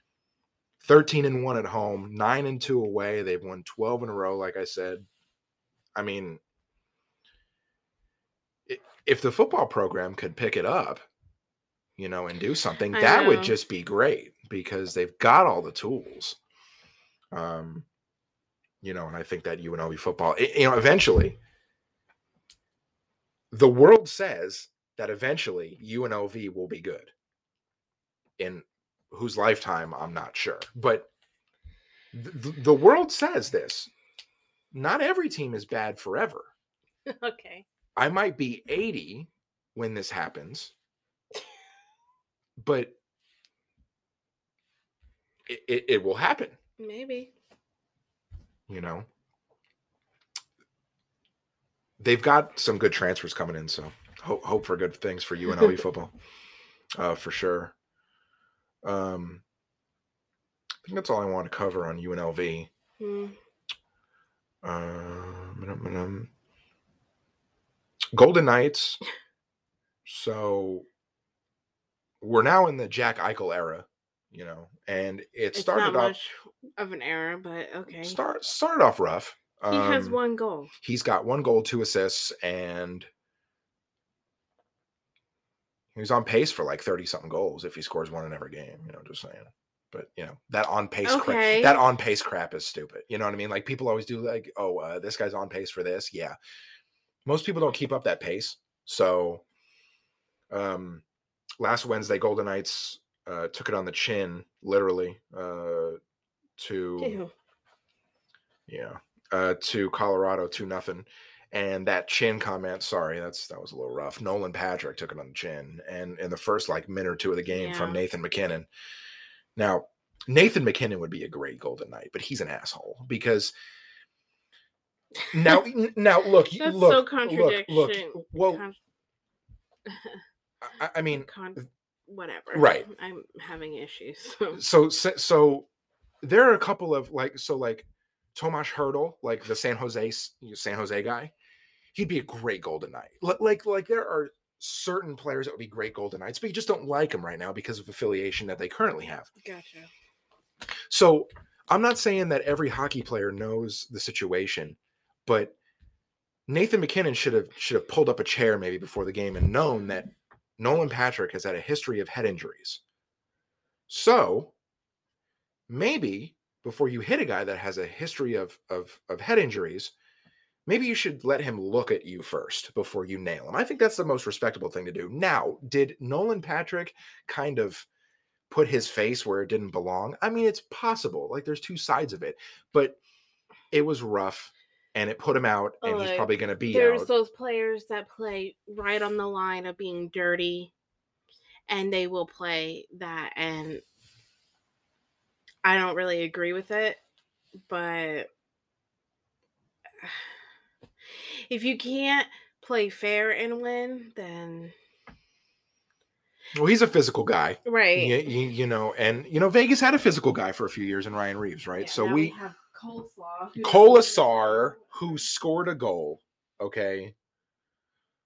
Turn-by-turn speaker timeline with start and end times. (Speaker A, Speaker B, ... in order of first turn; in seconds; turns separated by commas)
Speaker A: 0.8-5.0, Speaker A: 5.9-6.4, Speaker A: 8.7-11.1, Speaker A: 12.0-16.4, Speaker B: 12.9-13.6, Speaker A: 17.3-17.9, Speaker A: 18.8-21.4, Speaker A: 23.5-27.1, Speaker A: 28.4-31.1, Speaker A: 32.1-33.9, Speaker A: 34.7-36.5, Speaker B: 37.0-37.6, Speaker A: 38.0-40.7, Speaker A: 42.6-43.0, Speaker A: 45.5-46.6, Speaker B: 46.8-47.3, Speaker A: 48.7-49.0, Speaker A: 52.0-56.1, Speaker A: 57.0-57.7, Speaker A: 58.8-59.4, Speaker A: 60.8-62.7, Speaker B: 63.0-63.4, Speaker A: 64.6-66.3, Speaker A: 68.1-69.0, Speaker A: 70.0-70.8, Speaker A: 72.2-76.2, Speaker B: 75.5-78.2, Speaker A: 78.0-80.2, Speaker B: 79.7-80.7, Speaker A: 80.8-83.1, Speaker A: 85.9-96.3, Speaker B: 91.0-91.8, Speaker A: 97.2-99.4, Speaker A: 100.5-101.0, Speaker A: 101.6-106.0, Speaker A: 106.6-107.2, Speaker B: 107.0-107.3, Speaker A: 108.7-118.7, Speaker B: 117.5-118.0, Speaker A: 119.5-123.5, Speaker B: 125.2-125.6, Speaker A: 125.3-128.6, Speaker B: 126.6-128.8, Speaker B: 129.8-130.2, Speaker A: 130.6-131.7, Speaker B: 131.1-134.6, Speaker A: 132.5-132.9, Speaker A: 134.5-135.7, Speaker A: 136.2-141.3, Speaker A: 141.9-149.3, Speaker B: 149.4-149.9, Speaker A: 150.9-155.5, Speaker A: 156.5-162.8, Speaker A: 163.9-164.5, Speaker A: 165.7-169.9, Speaker A: 170.7-177.8, Speaker A: 178.5-183.0, Speaker A: 183.7-187.1, Speaker B: 185.8-190.7, Speaker B: 191.7-193.8, Speaker B: 195.6-197.0, Speaker B: 197.7-198.3, Speaker B: 200.0-200.3, Speaker B: 201.1-204.7, Speaker A: 206.5-212.3, Speaker B: 207.6-208.3, Speaker B: 211.8-215.2, Speaker A: 213.6-217.1